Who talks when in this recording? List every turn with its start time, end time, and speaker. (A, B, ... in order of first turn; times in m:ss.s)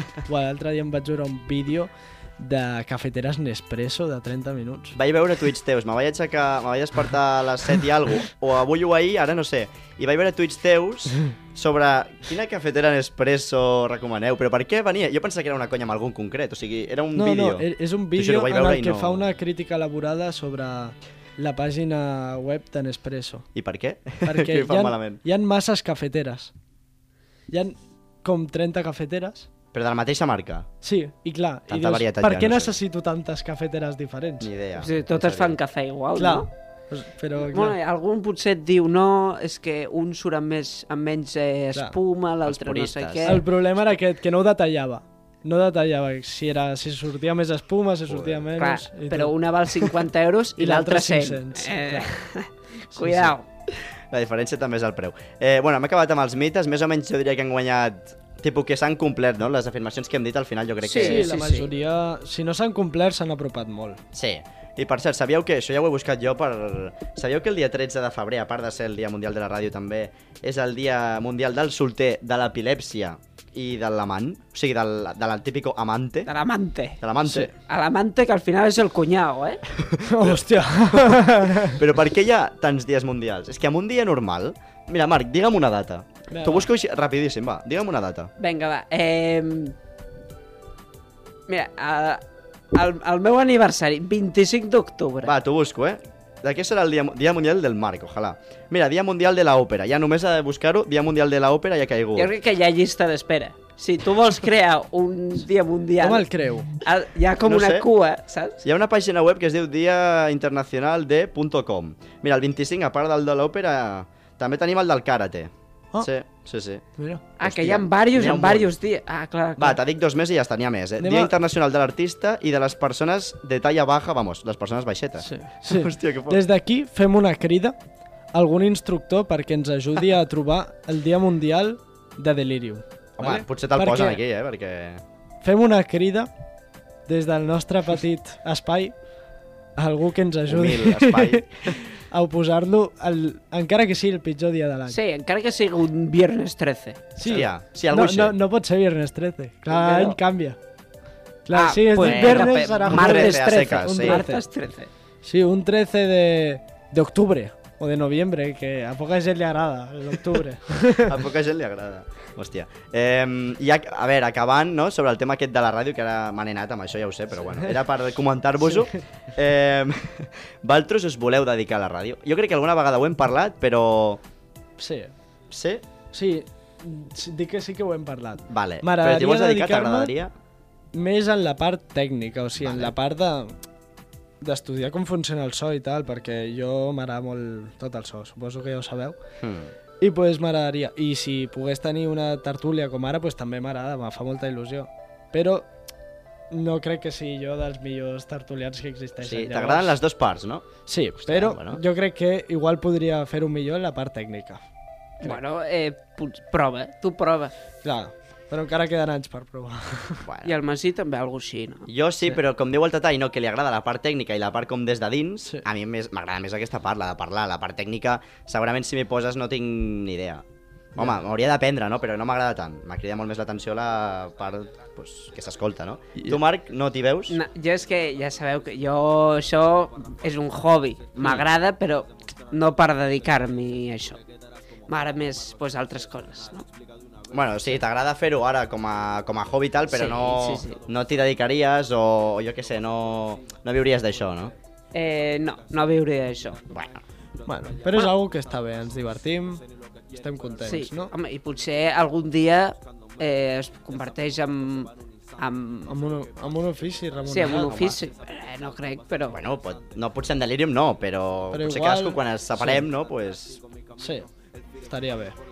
0:00.2-0:05.0 A
0:04.9-0:19.2 B
0:17.1-0:23.5 A
0:23.5-0:25.2 B
0:24.2-0:26.5 A
0:27.5-0:29.5 A
0:29.7-0:30.7 B
0:30.8-0:34.5 A
0:31.7-0:32.8 B
0:34.4-0:35.6 B
0:34.8-0:36.5 C
0:36.2-0:37.7 A
0:37.4-0:43.4 C
0:42.4-0:43.4 B
0:43.2-0:50.0 A
0:48.1-0:48.5 B
0:48.6-0:53.4 C
0:50.6-0:52.1 A
0:52.9-0:53.3 A
0:53.7-1:01.3 B
1:00.8-1:01.7 C
1:01.0-1:04.0 A
1:04.1-1:16.3 B
1:16.3-1:17.0 C
1:17.0-1:17.5 B
1:17.2-1:17.5 A
1:17.5-1:19.6 C
1:19.7-1:28.3 B
1:20.0-1:21.8 A
1:26.3-1:26.7 A
1:28.4-1:29.7 C
1:31.5-1:35.3 C
1:35.2-1:42.3 B
1:42.2-1:46.3 C
1:46.0-1:46.7 A
1:46.8-1:48.6 C
1:47.4-1:47.9 B
1:48.6-1:56.8 B
1:57.0-1:57.2 A
1:57.4-1:59.8 C
1:57.4-1:58.7 B
1:59.6-2:06.4 B
2:01.0-2:01.3 A
2:05.2-2:07.8 A
2:08.3-2:14.2 A
2:13.2-2:15.0 B
2:15.4-2:16.3 A
2:17.1-2:19.0 A
2:19.8-2:25.0 A
2:20.5-2:21.8 B
2:24.9-2:27.2 C
2:27.2-2:30.6 A
2:27.2-2:28.4 B
2:29.7-2:30.2 C
2:31.4-2:34.4 A
2:31.5-2:34.9 C
2:32.0-2:34.2 B
2:35.2-2:41.2 A
2:40.9-2:54.2 B
2:48.6-2:49.0 A
2:54.8-2:55.1 A
2:55.5-2:55.8 B
2:56.1-3:00.1 A
2:58.5-3:00.3 B
3:00.9-3:03.5 A
3:02.6-3:02.9 B
3:04.4-3:09.2 A
3:09.4-3:09.7 B
3:10.0-3:15.7 A
3:16.5-3:20.0 A
3:19.2-3:20.7 B
3:20.8-3:24.6 A
3:21.2-3:21.8 B
3:25.2-3:27.5 C
3:27.8-3:30.2 A
3:30.2-3:30.5 B
3:30.4-3:31.9 C
3:31.9-3:40.4 B
3:41.0-3:47.4 B
3:47.3-3:54.2 C
3:51.2-3:51.5 B
3:54.9-3:56.7 C
3:57.3-4:04.5 B
3:59.9-4:00.8 C
4:04.9-4:06.6 C
4:06.7-4:07.0 B
4:07.4-4:11.1 A
4:10.6-4:15.9 C
4:15.9-4:18.0 A
4:17.3-4:19.4 C
4:19.3-4:23.6 B
4:21.5-4:22.8 A
4:24.0-4:24.3 A
4:24.8-4:25.4 A